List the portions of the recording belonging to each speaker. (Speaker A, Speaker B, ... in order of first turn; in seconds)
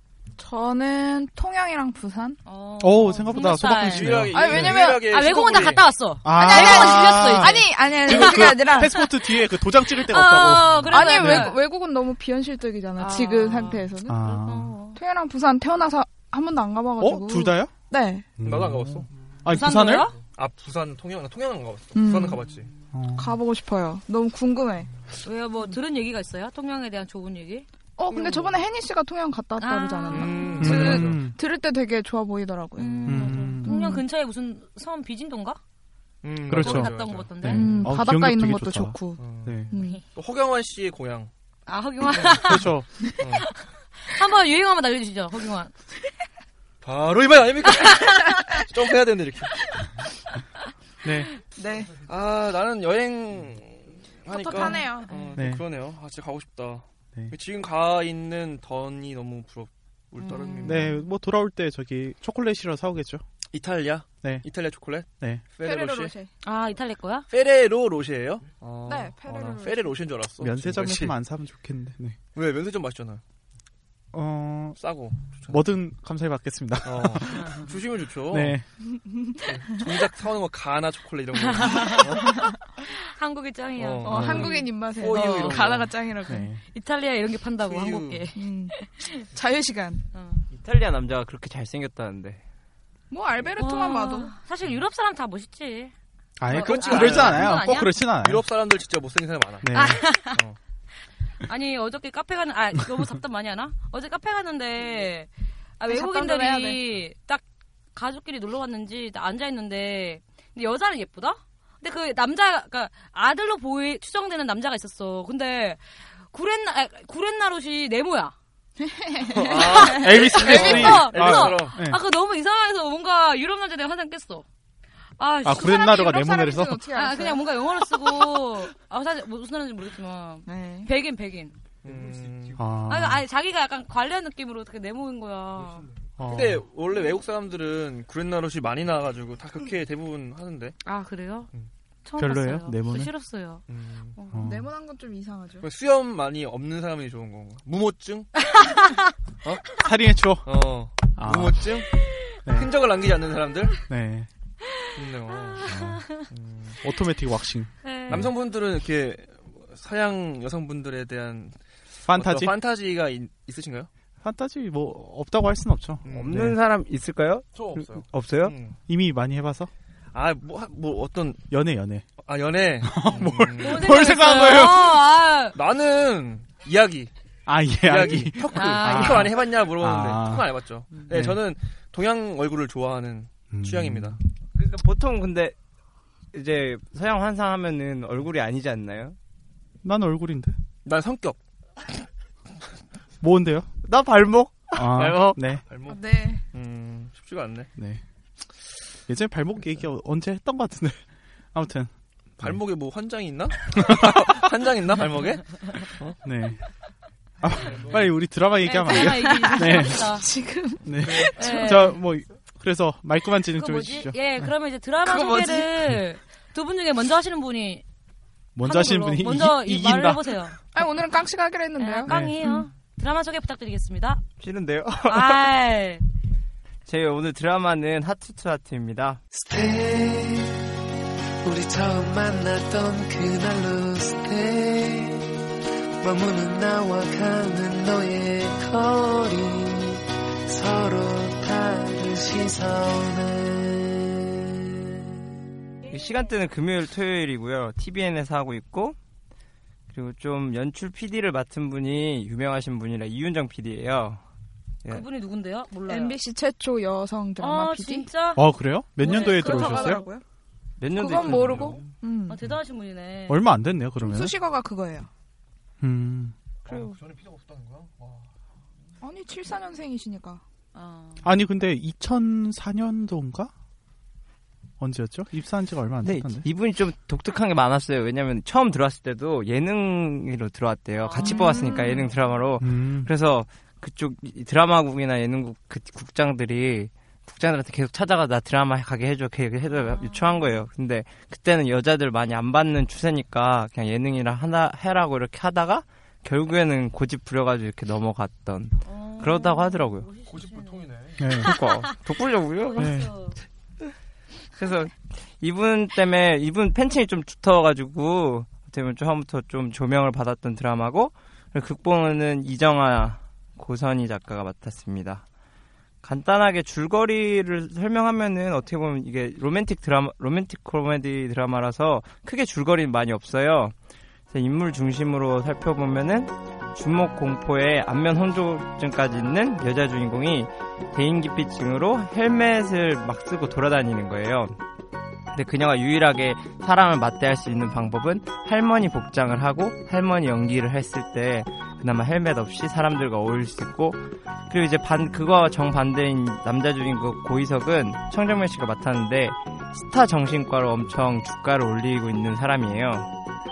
Speaker A: 0.4-2.4, 4.3-5.3, 6.3-9.0, 10.9-14.2, 14.9-18.3, 21.9-22.4, 23.1-24.9, 28.0-34.0, 37.5-40.0, 51.6-52.0, 54.3-55.1, 65.6-66.3, 68.8-70.0, 79.1-79.4, 84.0-86.5, 88.3-90.0, 93.1-94.3, 105.9-106.8, 118.8-119.9, 125.6-128.2, 130.4-130.9, 144.4-145.7, 195.9-196.4, 209.0-211.8, 215.1-215.6, 220.7-222.6, 255.9-258.1, 259.0-260.2, 260.9-262.4, 264.0-265.1, 269.0-270.4, 281.3-281.9
Speaker B: 2.4-11.6, 13.0-15.0, 19.5-20.1, 25.2-28.6, 29.6-31.0, 32.8-35.6, 36.5-37.8, 39.7-40.0, 41.7-42.7, 44.0-45.7, 54.3-55.3, 60.2-60.9, 66.4-67.3, 81.3-84.5, 86.7-89.2, 90.1-90.4, 93.6-95.9, 96.5-97.9, 99.7-100.4, 101.5-107.4, 107.9-118.3, 119.5-124.4, 125.2-126.3, 126.9-131.6, 132.9-135.9, 140.8-141.5, 142.0-143.6, 144.2-144.4, 148.6-149.0, 155.6-156.2, 157.8-158.3, 173.6-175.6, 178.5-179.3, 208.6-210.3, 211.4-212.0, 213.6-217.8, 218.6-220.6, 221.8-224.2, 225.1-226.0, 254.9-256.1, 257.4-258.4, 259.0-260.0, 262.3-263.4, 270.7-271.2, 281.0-282.2, 289.7-290.5, 298.8-300.9, 301.4-302.0, 302.6-303.4
Speaker C: 2.8-4.8, 6.2-11.5, 14.1-14.8, 17.0-17.7, 18.4-20.1, 22.9-23.4, 30.6-31.4, 33.0-33.8, 36.5-39.7, 42.2-42.9, 51.0-51.3, 55.4-55.6, 60.6-63.2, 70.4-72.2, 74.1-74.8, 75.5-77.7, 78.3-78.6, 84.1-84.6, 86.2-86.6, 96.4-98.5, 99.6-100.0, 119.8-122.0, 125.4-126.8, 132.6-133.2, 136.2-136.7, 142.2-143.1, 144.3-144.7, 149.8-151.8, 152.4-152.7, 153.8-154.3, 155.7-156.0, 156.8-158.2, 162.1-162.5, 164.2-166.5, 168.9-169.7, 171.5-172.1, 172.8-175.0, 177.5-180.5, 181.1-181.4, 183.5-184.2, 189.8-190.5, 193.2-193.8, 194.7-195.6, 197.8-198.0, 199.1-202.6, 203.7-204.4, 206.2-206.6, 207.4-210.1, 210.8-214.5, 218.5-220.4, 222.1-222.4, 258.3-260.0, 263.3-264.3, 265.8-266.3, 271.2-273.5, 274.8-276.5, 282.6-283.1, 301.2-301.5, 302.8-303.1
Speaker D: 3.5-5.8, 18.4-19.1, 20.3-22.7, 30.1-31.2, 36.2-37.9, 39.2-41.3, 43.2-43.5, 46.8-49.7, 52.0-61.0, 63.5-66.1, 67.3-71.2, 72.3-73.2, 74.8-75.7, 76.8-78.6, 79.4-82.4, 83.8-85.9, 87.6-88.2, 96.5-100.6, 119.3-121.7, 131.8-132.6, 136.2-140.8, 143.7-144.2, 145.6-148.3, 150.4-153.8, 154.9-155.7, 156.3-156.8, 158.1-161.6, 162.1-163.9, 166.0-166.6, 167.5-168.8, 170.1-171.4, 172.2-174.0, 175.5-177.1, 177.8-184.2, 190.8-191.4, 194.7-197.7, 202.4-206.2, 207.7-208.0, 211.0-211.3, 266.7-268.2, 300.3-301.3
Speaker E: 90.5-92.4, 166.1-167.4, 168.0-168.5, 184.6-185.6, 186.3-189.2, 194.2-194.6, 224.4-225.4, 226.8-229.2, 245.9-249.0, 249.9-254.2, 260.8-261.8, 276.0-300.1, 301.4-302.9, 304.6-315.2, 316.0-323.7, 324.3-334.6, 335.3-353.1
Speaker F: 229.3-230.6, 231.4-235.4, 236.0-244.3